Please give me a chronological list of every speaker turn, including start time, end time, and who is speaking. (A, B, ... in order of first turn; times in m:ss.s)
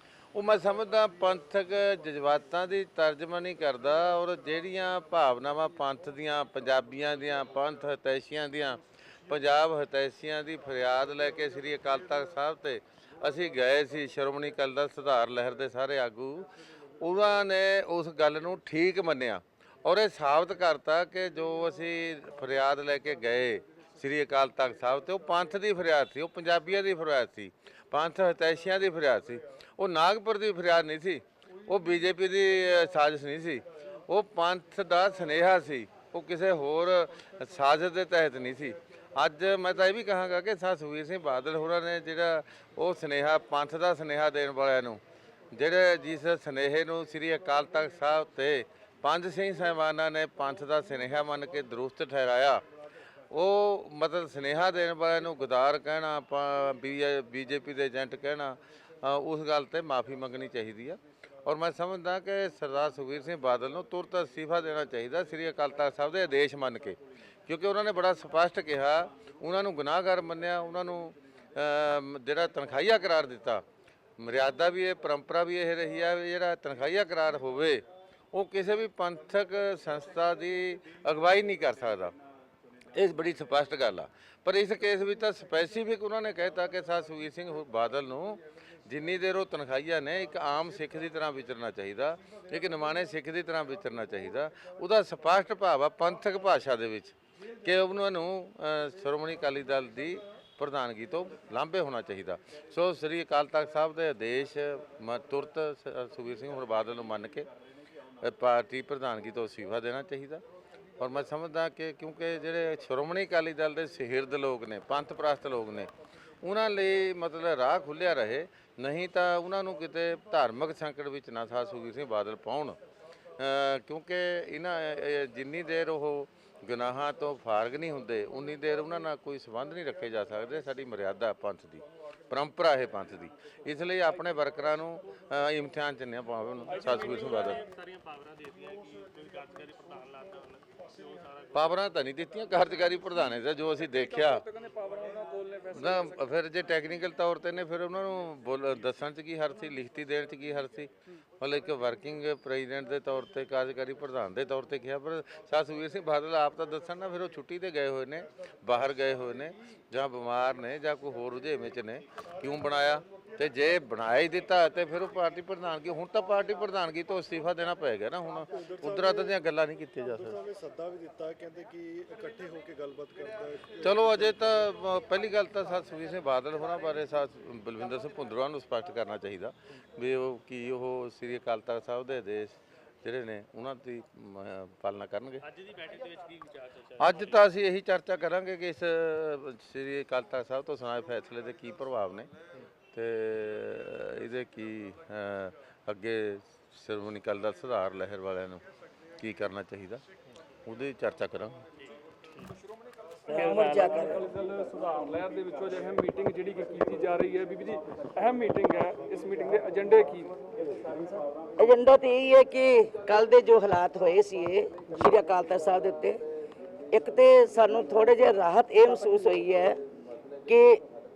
0:00.3-0:16.5 A
0:17.0-0:45.0 A
0:45.5-0:52.6 A
0:53.3-1:13.6 A
1:14.2-1:22.2 A
1:23.0-1:47.5 A
1:48.2-1:50.4 A
1:51.0-1:55.9 A
1:56.4-2:02.8 A
2:03.4-2:17.6 A
2:16.7-2:17.6 B
2:17.0-2:21.7 C
2:21.5-2:24.4 A
2:23.8-2:26.2 B
2:25.7-2:50.4 A
2:50.4-2:53.8 D
2:53.8-3:05.4 A
3:05.4-3:07.4 C
3:07.0-3:12.3 A
3:12.9-3:18.6 A
3:19.2-3:20.0 A
3:20.7-3:21.6 A
3:23.3-3:30.3 B
3:23.3-3:24.2 E
3:23.3-3:23.8 C
3:31.6-3:36.2 E
3:36.9-3:39.8 E
3:40.5-3:40.8 E